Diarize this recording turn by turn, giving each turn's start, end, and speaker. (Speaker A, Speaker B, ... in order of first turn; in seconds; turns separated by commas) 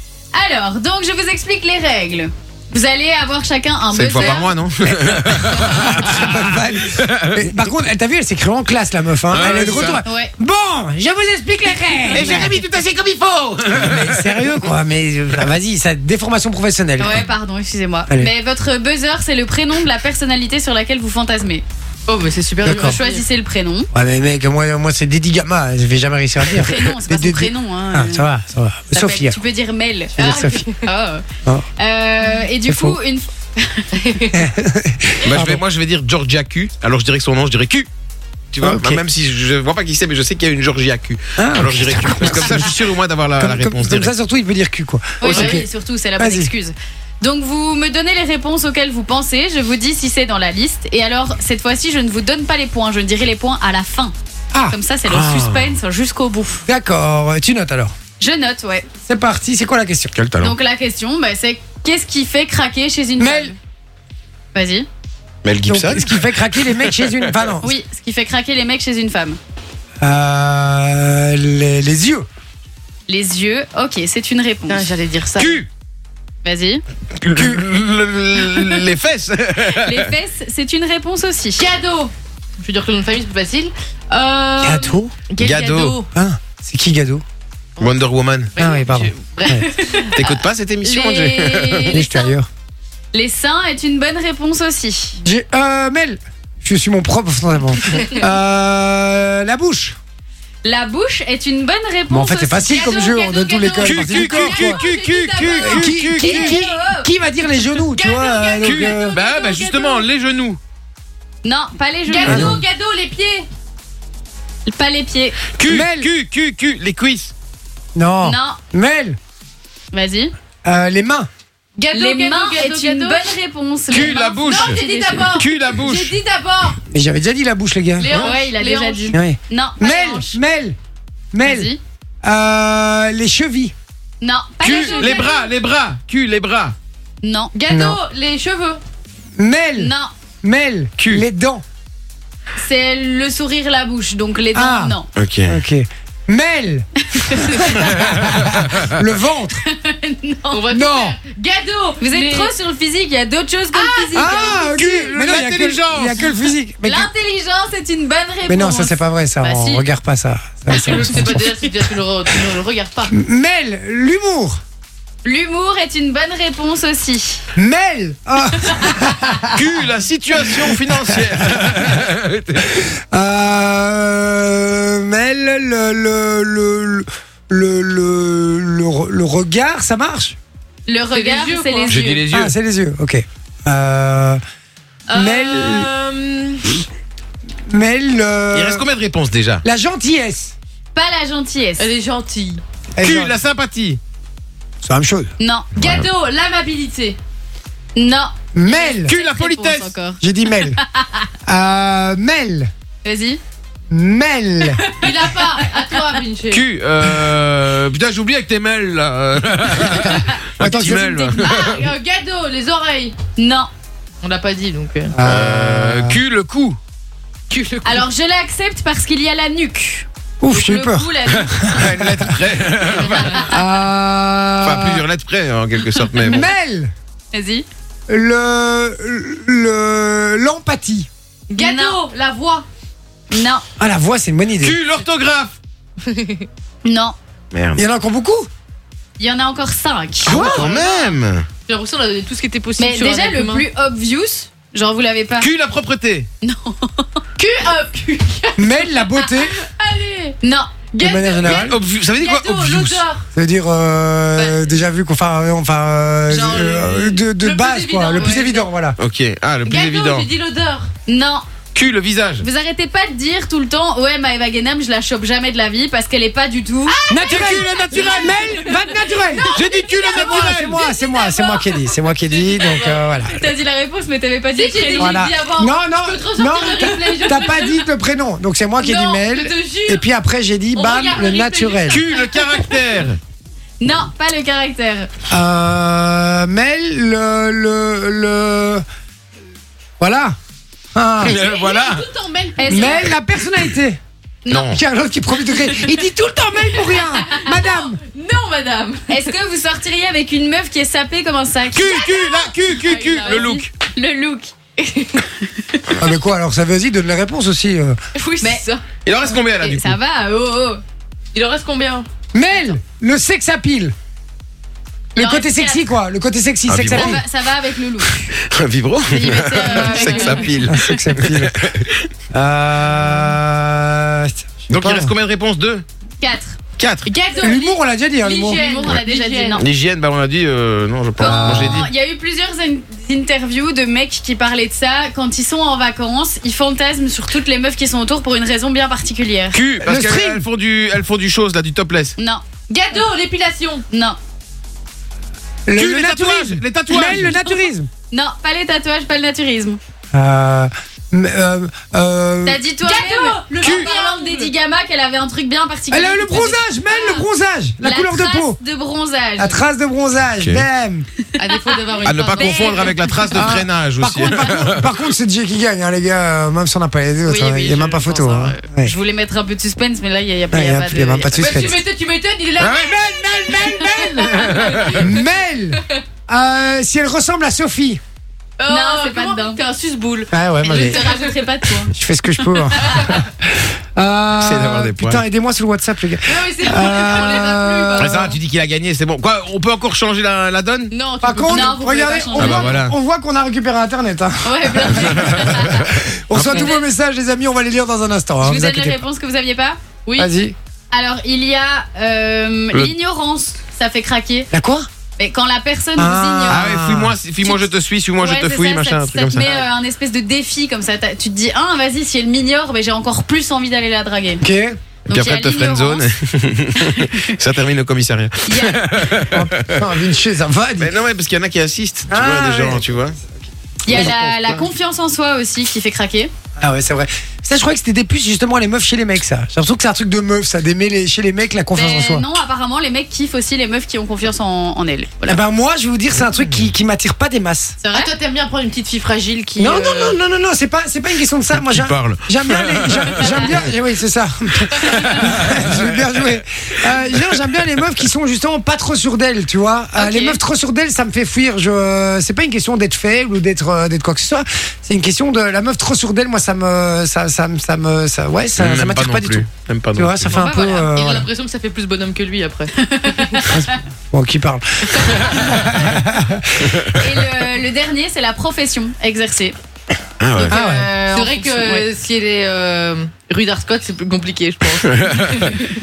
Speaker A: 0.3-4.5, Speaker B: 3.9-7.5, Speaker C: 5.5-12.6, Speaker B: 9.3-10.0, Speaker A: 10.0-10.3, Speaker B: 12.1-14.1, Speaker C: 13.7-17.3, Speaker A: 17.0-21.6, Speaker D: 22.1-23.2, Speaker C: 22.6-23.0, Speaker A: 22.8-23.9, Speaker C: 23.9-29.4, Speaker A: 26.5-28.3, Speaker A: 28.9-31.2, Speaker C: 30.2-30.6, Speaker D: 30.2-30.8, Speaker A: 31.8-34.2, Speaker C: 32.7-33.0, Speaker D: 34.0-34.3, Speaker C: 34.3-35.6, Speaker B: 35.2-37.9, Speaker B: 38.5-44.1, Speaker C: 38.6-39.0, Speaker C: 41.4-42.8, Speaker C: 43.4-46.5, Speaker A: 45.2-54.1, Speaker B: 45.2-45.5, Speaker A: 54.7-56.6, Speaker B: 55.0-55.7, Speaker C: 56.6-57.9, Speaker A: 58.2-58.9, Speaker C: 59.0-60.1, Speaker B: 60.1-60.5, Speaker A: 60.4-63.6, Speaker C: 63.2-63.5, Speaker A: 64.5-64.8, Speaker B: 65.4-67.1, Speaker C: 65.7-67.7, Speaker A: 67.6-69.4, Speaker C: 70.0-72.3, Speaker A: 73.1-74.9, Speaker D: 74.7-75.6, Speaker B: 75.4-75.7, Speaker A: 76.4-76.8, Speaker B: 77.2-80.1, Speaker C: 77.3-77.6, Speaker A: 79.7-81.7, Speaker D: 81.6-86.1, Speaker C: 84.6-85.1, Speaker B: 85.4-86.0, Speaker C: 86.1-87.2, Speaker B: 87.8-88.5, Speaker D: 88.5-90.2, Speaker C: 88.6-89.6, Speaker A: 89.7-90.3, Speaker B: 90.2-92.0, Speaker D: 90.8-91.1, Speaker A: 91.0-92.3, Speaker C: 91.9-92.5, Speaker A: 93.1-95.2, Speaker C: 95.2-100.0, Speaker A: 100.6-102.8, Speaker C: 102.1-104.8, Speaker D: 102.7-106.1, Speaker B: 103.8-106.4, Speaker C: 105.6-109.2, Speaker A: 105.8-107.1, Speaker D: 107.8-110.1, Speaker B: 108.6-110.6, Speaker A: 111.4-112.6, Speaker D: 112.1-113.5, Speaker C: 112.2-112.6, Speaker A: 114.7-115.4, Speaker B: 115.5-117.3, Speaker C: 115.6-116.1, Speaker C: 117.9-119.2, Speaker A: 118.2-118.6, Speaker A: 119.9-120.3, Speaker C: 120.6-121.3, Speaker D: 121.8-123.3, Speaker A: 121.9-125.3, Speaker B: 123.9-126.2, Speaker D: 124.4-126.8, Speaker C: 126.8-128.2, Speaker D: 128.0-129.2, Speaker A: 128.1-130.4, Speaker C: 129.1-130.8, Speaker C: 131.3-131.7, Speaker A: 131.4-131.8, Speaker C: 132.2-133.7, Speaker A: 134.2-135.5, Speaker B: 134.6-136.8, Speaker D: 134.7-135.4, Speaker A: 137.2-137.5, Speaker D: 137.5-138.8, Speaker C: 137.7-138.0, Speaker C: 139.4-141.6, Speaker A: 139.8-140.1, Speaker A: 142.6-145.1, Speaker C: 144.5-149.6, Speaker B: 145.2-145.6, Speaker A: 147.1-148.1, Speaker A: 149.5-150.6, Speaker D: 150.5-152.5, Speaker C: 150.7-151.2, Speaker A: 152.0-154.8, Speaker C: 154.1-157.1, Speaker B: 154.6-156.4, Speaker A: 156.8-159.8, Speaker C: 158.4-161.4, Speaker D: 160.7-163.1, Speaker C: 163.1-164.6, Speaker A: 165.2-167.4, Speaker C: 167.6-169.6, Speaker A: 168.6-169.1, Speaker B: 169.5-172.8, Speaker C: 170.3-171.9, Speaker C: 172.6-180.3, Speaker A: 180.8-182.2, Speaker D: 181.1-182.2, Speaker B: 181.9-182.5, Speaker C: 182.3-184.4, Speaker D: 185.1-186.8, Speaker C: 185.1-185.9, Speaker C: 187.7-188.8, Speaker B: 188.5-189.6, Speaker C: 189.6-190.5, Speaker A: 190.9-191.9, Speaker D: 191.8-192.6, Speaker C: 192.9-193.4, Speaker B: 193.0-194.0, Speaker C: 194.8-195.3, Speaker A: 195.4-195.7, Speaker D: 195.7-197.2, Speaker B: 195.8-196.0, Speaker A: 197.9-201.2, Speaker C: 198.5-199.1, Speaker B: 199.1-199.9, Speaker C: 200.2-200.8, Speaker C: 201.4-202.7, Speaker A: 203.0-203.4, Speaker C: 203.9-204.8, Speaker D: 204.9-206.6, Speaker B: 206.5-211.8, Speaker C: 210.6-211.4, Speaker A: 210.6-211.5, Speaker D: 211.3-213.1, Speaker A: 213.4-213.7, Speaker D: 214.2-215.1, Speaker C: 215.1-216.2, Speaker B: 215.2-216.8, Speaker D: 217.5-218.1, Speaker A: 217.8-221.8, Speaker C: 220.4-222.3, Speaker B: 221.7-223.4, Speaker D: 223.0-223.4, Speaker A: 223.1-223.5, Speaker C: 223.4-225.0, Speaker B: 224.6-226.4, Speaker C: 226.2-226.9, Speaker A: 227.3-227.7, Speaker C: 228.1-231.1, Speaker D: 231.5-232.7, Speaker A: 231.6-232.0, Speaker A: 233.3-233.6, Speaker C: 233.8-234.8, Speaker B: 234.6-235.5, Speaker D: 236.0-236.5, Speaker A: 236.8-237.2, Speaker B: 237.5-237.8, Speaker C: 237.7-238.5, Speaker A: 239.2-240.8, Speaker D: 240.2-241.1, Speaker B: 240.2-241.5, Speaker D: 241.7-243.6, Speaker A: 242.8-245.5, Speaker B: 245.4-246.3, Speaker A: 246.4-247.2, Speaker D: 247.4-250.4, Speaker C: 248.6-249.5, Speaker A: 250.4-250.7, Speaker D: 250.9-253.2, Speaker C: 251.0-251.8, Speaker B: 251.4-253.0, Speaker C: 253.3-259.0, Speaker A: 254.3-254.7, Speaker D: 256.3-258.6, Speaker B: 259.0-260.3, Speaker D: 259.6-260.9, Speaker A: 261.1-261.4, Speaker B: 261.7-262.4, Speaker A: 262.4-267.0, Speaker D: 266.9-273.1, Speaker C: 267.1-273.5, Speaker B: 267.6-268.1, Speaker B: 269.5-270.7, Speaker A: 273.2-275.2, Speaker D: 274.6-277.9, Speaker C: 275.0-282.0, Speaker D: 278.8-280.0, Speaker D: 280.7-282.8, Speaker B: 281.9-283.2, Speaker A: 283.8-285.1, Speaker C: 285.3-288.8, Speaker C: 290.0-290.4, Speaker C: 290.9-291.4, Speaker B: 291.2-292.1, Speaker D: 291.2-293.1, Speaker A: 292.6-293.1, Speaker C: 292.7-294.0, Speaker A: 294.5-294.7, Speaker B: 294.5-294.8, Speaker C: 294.6-298.0, Speaker D: 296.7-299.2, Speaker A: 299.1-302.3, Speaker B: 301.7-303.7, Speaker D: 301.8-303.6, Speaker A: 302.9-304.5, Speaker D: 304.8-305.2, Speaker A: 305.1-305.8, Speaker C: 305.9-308.0, Speaker D: 308.1-308.9, Speaker B: 309.1-310.0, Speaker A: 309.3-310.8, Speaker D: 311.3-312.1, Speaker C: 312.3-313.9, Speaker C: 315.1-317.2, Speaker A: 315.1-315.9, Speaker B: 316.7-317.2, Speaker A: 316.8-318.3, Speaker B: 318.1-321.9, Speaker A: 319.1-320.6, Speaker D: 319.8-320.4, Speaker C: 320.6-321.6, Speaker C: 322.3-325.1, Speaker B: 324.7-325.8, Speaker A: 326.2-326.6, Speaker B: 326.8-327.1, Speaker D: 327.0-329.6, Speaker C: 327.4-328.6, Speaker A: 328.5-329.6, Speaker B: 329.6-331.9, Speaker C: 331.2-331.9, Speaker A: 331.2-339.6, Speaker B: 339.5-342.1, Speaker C: 339.8-340.4, Speaker A: 342.2-342.4, Speaker D: 342.7-343.8, Speaker A: 343.9-344.2, Speaker C: 345.6-347.9, Speaker B: 345.7-347.4, Speaker A: 348.1-349.8, Speaker C: 350.1-352.6, Speaker A: 352.4-357.3, Speaker D: 352.8-354.5, Speaker C: 353.6-353.9, Speaker C: 355.9-358.6, Speaker A: 357.8-359.7, Speaker C: 359.4-361.1, Speaker B: 360.4-360.6, Speaker D: 361.4-363.0, Speaker B: 362.0-364.9, Speaker A: 362.3-363.5, Speaker C: 363.3-368.9, Speaker A: 367.2-367.9, Speaker D: 367.8-368.6, Speaker A: 368.8-371.7, Speaker C: 370.5-371.8, Speaker D: 371.3-375.2, Speaker B: 372.6-375.0, Speaker A: 373.6-374.3, Speaker C: 373.9-374.4, Speaker C: 374.9-378.0, Speaker D: 378.6-381.4, Speaker A: 378.7-379.6, Speaker C: 380.3-381.0, Speaker A: 380.6-383.1, Speaker C: 381.9-388.3, Speaker D: 382.9-383.1, Speaker B: 384.4-385.2, Speaker D: 386.2-388.3, Speaker B: 388.0-390.9, Speaker D: 390.9-392.6, Speaker C: 391.2-399.0, Speaker A: 391.4-392.8, Speaker B: 392.4-392.9, Speaker A: 394.4-395.9, Speaker B: 395.0-395.8, Speaker B: 396.3-396.7, Speaker A: 396.5-396.9, Speaker A: 398.4-399.8, Speaker C: 400.2-400.5, Speaker A: 400.9-404.5, Speaker C: 404.5-404.9, Speaker A: 405.2-406.7, Speaker C: 406.0-407.1, Speaker B: 406.5-409.6, Speaker A: 407.4-414.4, Speaker C: 414.4-414.8, Speaker A: 415.1-416.1, Speaker B: 415.1-419.4, Speaker A: 416.8-417.3, Speaker A: 418.5-418.9, Speaker C: 419.3-420.9, Speaker B: 420.8-423.2, Speaker C: 422.1-422.9, Speaker A: 423.8-426.3, Speaker C: 423.9-424.2, Speaker B: 423.9-424.6, Speaker C: 426.6-432.2, Speaker A: 431.7-435.4, Speaker C: 435.2-437.8, Speaker D: 437.8-440.2, Speaker C: 439.6-461.3, Speaker B: 441.5-443.6, Speaker B: 445.2-445.8, Speaker A: 449.9-450.4, Speaker B: 458.5-460.3, Speaker A: 460.3-460.9, Speaker D: 460.7-463.6, Speaker A: 462.8-463.7, Speaker C: 463.5-466.8, Speaker D: 464.9-465.4, Speaker A: 465.2-465.7, Speaker A: 466.9-469.6, Speaker B: 470.2-470.6, Speaker A: 470.3-471.9, Speaker C: 470.5-470.9, Speaker D: 471.1-475.6, Speaker B: 474.9-475.5